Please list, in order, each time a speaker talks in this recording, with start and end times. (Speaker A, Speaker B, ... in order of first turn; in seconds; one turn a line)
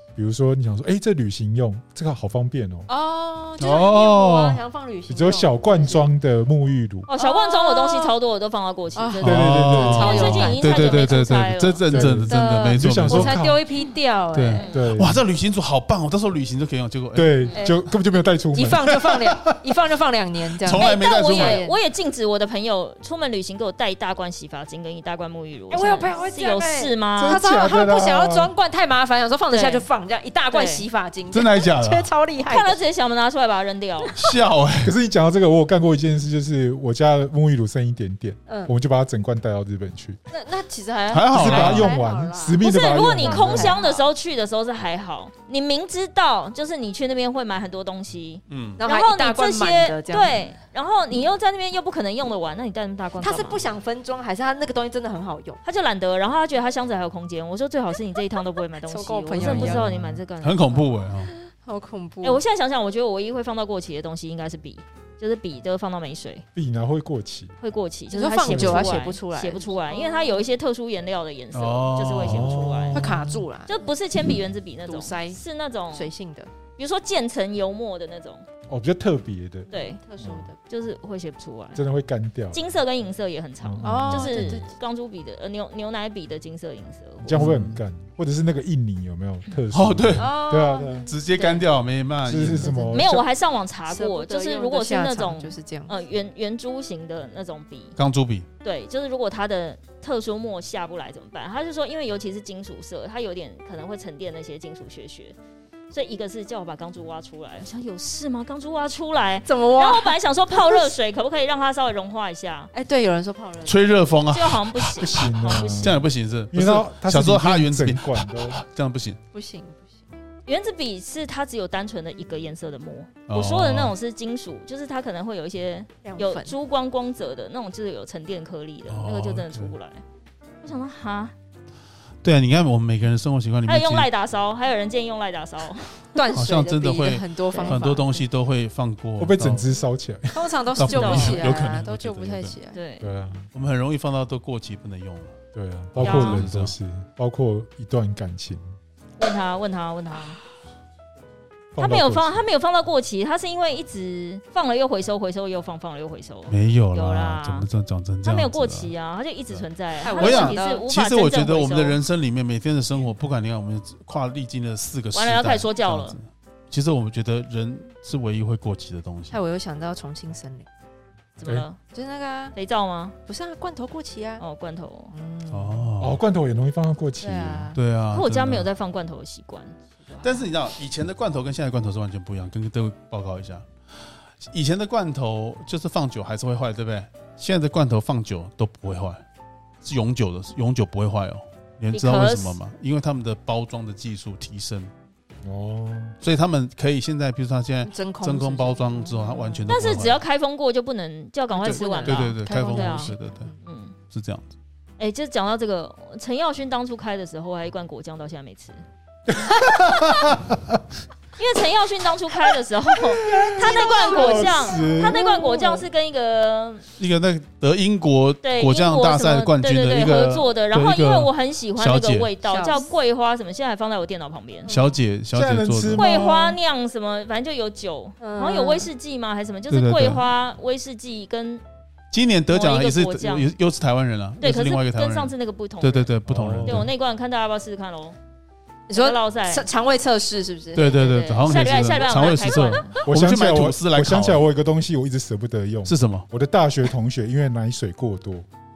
Speaker A: 0.1-2.9
Speaker B: 2.9-6.1
Speaker C: 3.6-4.6
Speaker A: 5.1-7.1
Speaker D: 7.1-12.0
Speaker B: 7.1-8.1
Speaker B: 8.9-11.1
Speaker C: 9.2-13.3
Speaker A: 9.2-10.5
Speaker A: 11.9-13.6
Speaker B: 12.2-14.7
Speaker C: 14.3-17.4
Speaker D: 14.5-14.9
Speaker A: 14.7-15.2
Speaker A: 17.1-19.0
Speaker B: 17.5-17.8
Speaker B: 18.5-21.8
Speaker C: 19.0-19.4
Speaker C: 20.6-21.6
Speaker D: 20.6-27.4
Speaker B: 25.7-32.8
Speaker A: 27.2-28.5
Speaker D: 29.5-29.9
Speaker D: 30.5-30.9
Speaker C: 31.3-32.1
Speaker D: 32.4-34.1
Speaker B: 34.0-34.3
Speaker C: 34.1-34.9
Speaker A: 34.8-40.2
Speaker B: 38.5-38.7
Speaker B: 40.3-44.1
Speaker C: 41.1-41.9
Speaker A: 41.3-43.8
Speaker D: 42.6-53.7
Speaker C: 48.5-48.8
Speaker B: 48.8-50.5
Speaker B: 53.2-55.6
Speaker D: 55.6-60.9
Speaker B: 58.8-59.9
Speaker A: 59.4-60.2
Speaker C: 60.4-61.3
Speaker B: 61.3-62.4
Speaker D: 62.2-66.4
Speaker A: 66.5-67.5
Speaker D: 67.6-73.0
Speaker B: 68.1-70.5
Speaker A: 68.4-69.0
Speaker C: 71.5-72.7
Speaker A: 72.2-73.4
Speaker B: 72.9-73.8
Speaker D: 73.7-76.1
Speaker B: 74.8-75.4
Speaker B: 75.9-76.5
Speaker D: 76.8-78.4
Speaker A: 78.7-80.5
Speaker D: 79.7-80.0
Speaker B: 79.7-80.6
Speaker D: 80.7-81.8
Speaker A: 81.7-82.6
Speaker D: 82.5-87.4
Speaker A: 83.6-84.5
Speaker B: 83.8-84.7
Speaker A: 87.2-91.1
Speaker C: 87.3-87.8
Speaker C: 89.7-90.4
Speaker B: 90.2-91.6
Speaker C: 91.0-92.8
Speaker A: 92.2-93.3
Speaker B: 92.5-93.1
Speaker D: 92.9-98.0
Speaker B: 93.9-95.9
Speaker C: 98.0-98.5
Speaker D: 98.6-105.3
Speaker D: 105.9-112.7
Speaker B: 109.5-110.9
Speaker B: 112.7-113.8
Speaker C: 113.6-119.2
Speaker D: 114.3-116.0
Speaker A: 115.0-118.6
Speaker B: 119.3-120.0
Speaker D: 120.5-130.0
Speaker C: 123.3-123.9
Speaker B: 126.0-126.5
Speaker C: 128.9-129.8
Speaker D: 130.6-131.3
Speaker C: 132.2-134.1
Speaker D: 133.7-136.1
Speaker B: 136.1-138.2
Speaker C: 136.3-139.8
Speaker D: 137.5-137.8
Speaker A: 139.2-140.5
Speaker B: 140.3-142.8
Speaker C: 140.8-142.5
Speaker D: 140.8-141.5
Speaker D: 142.7-143.1
Speaker A: 143.0-143.5
Speaker C: 143.5-145.3
Speaker A: 145.5-148.7
Speaker C: 145.9-146.7
Speaker D: 146.0-146.5
Speaker D: 149.2-150.4
Speaker A: 151.7-152.4
Speaker D: 151.7-157.7
Speaker C: 156.5-158.9
Speaker D: 158.2-162.0
Speaker B: 160.0-160.9
Speaker C: 160.2-169.4
Speaker D: 165.1-166.2
Speaker B: 169.3-170.7
Speaker D: 171.4-171.8
Speaker B: 171.9-172.6
Speaker D: 172.5-173.1
Speaker B: 173.2-174.4
Speaker D: 174.4-175.1
Speaker B: 175.1-175.9
Speaker C: 175.5-176.2
Speaker A: 176.0-177.7
Speaker B: 177.2-177.8
Speaker C: 177.7-178.7
Speaker D: 178.1-180.5
Speaker C: 180.2-189.2
Speaker C: 189.8-194.9
Speaker D: 191.9-192.6
Speaker A: 195.4-196.2
Speaker C: 196.2-200.2
Speaker B: 197.8-200.0
Speaker D: 199.7-203.9
Speaker B: 201.5-203.6
Speaker C: 201.6-203.5
Speaker C: 204.1-204.5
Speaker D: 205.0-208.8
Speaker A: 209.3-210.7
Speaker D: 211.4-216.8
Speaker A: 213.2-215.2
Speaker B: 213.3-215.9
Speaker C: 217.0-222.3
Speaker D: 218.4-224.7
Speaker B: 222.4-222.9
Speaker B: 224.6-225.0
Speaker C: 224.7-226.2
Speaker A: 225.3-226.6
Speaker D: 225.9-231.6
Speaker B: 228.2-228.9
Speaker C: 229.7-230.2
Speaker C: 232.1-236.9
Speaker D: 232.5-233.5
Speaker D: 234.4-236.1
Speaker A: 236.2-236.9
Speaker D: 236.6-238.2
Speaker B: 238.9-241.9
Speaker D: 238.9-239.7
Speaker C: 240.7-244.4
Speaker D: 241.4-243.0
Speaker B: 242.6-242.9
Speaker A: 243.1-248.5
Speaker C: 245.8-246.2